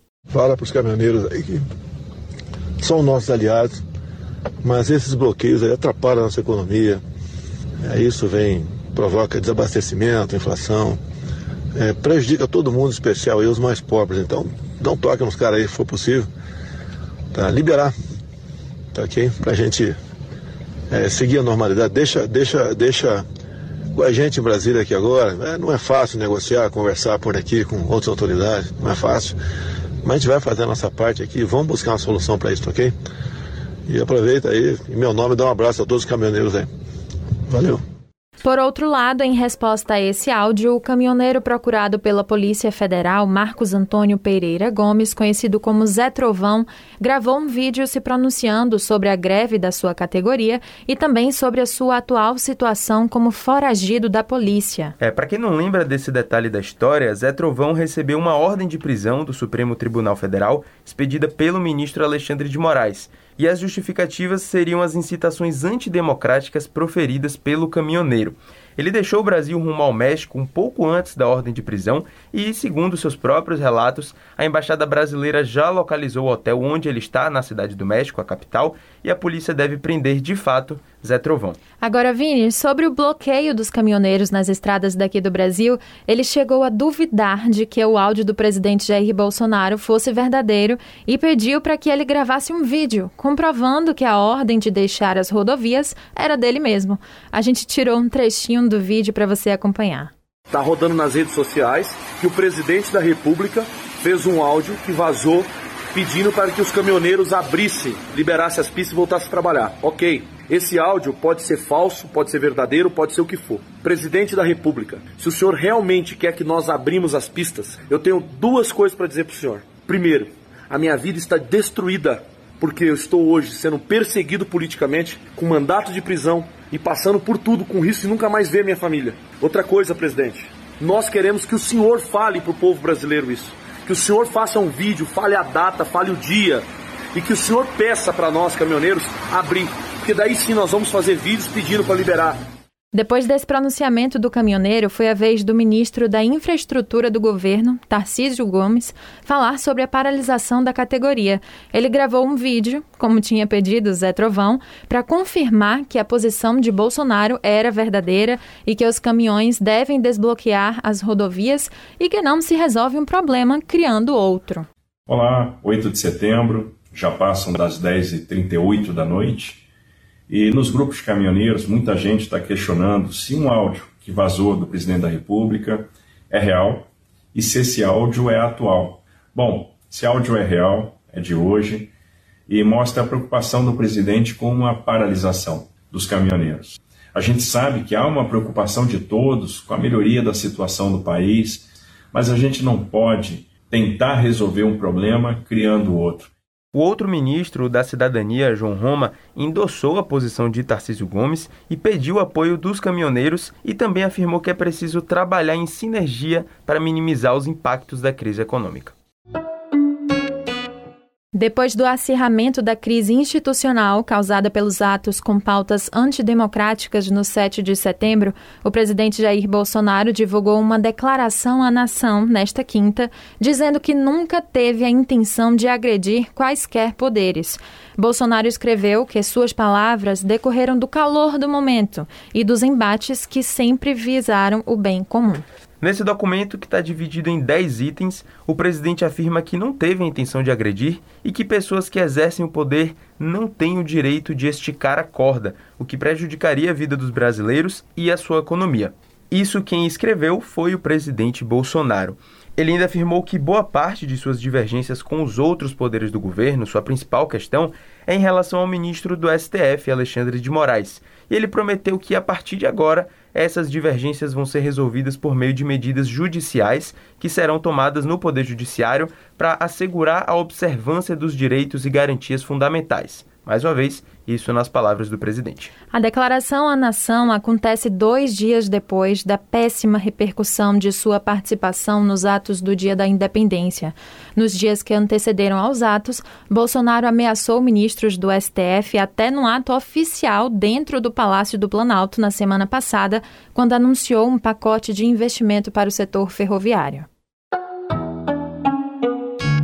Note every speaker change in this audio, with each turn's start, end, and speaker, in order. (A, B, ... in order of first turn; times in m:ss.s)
0:00.3-0:01.6 A
0:02.8-0:03.8 A
0:04.6-0:07.0 A
0:07.8-0:11.0 A
0:11.7-0:16.3 A
0:17.3-0:17.9 A
0:18.9-0:20.0 A
0:20.9-0:23.2 A
0:23.9-0:29.4 A
0:30.0-0:32.9 A
0:33.9-0:36.7 A
0:37.5-0:37.8 A
0:38.4-0:54.9 B
0:55.0-1:21.6 C
1:21.8-1:40.1 B
1:40.5-2:22.4 D
2:22.9-2:44.7 B
2:45.1-2:49.6 E
2:50.3-3:01.9 E
3:02.5-3:16.3 E
3:16.7-3:28.9 C
3:31.3-3:55.4 B
3:55.8-4:35.7 C
4:35.9-4:57.1 B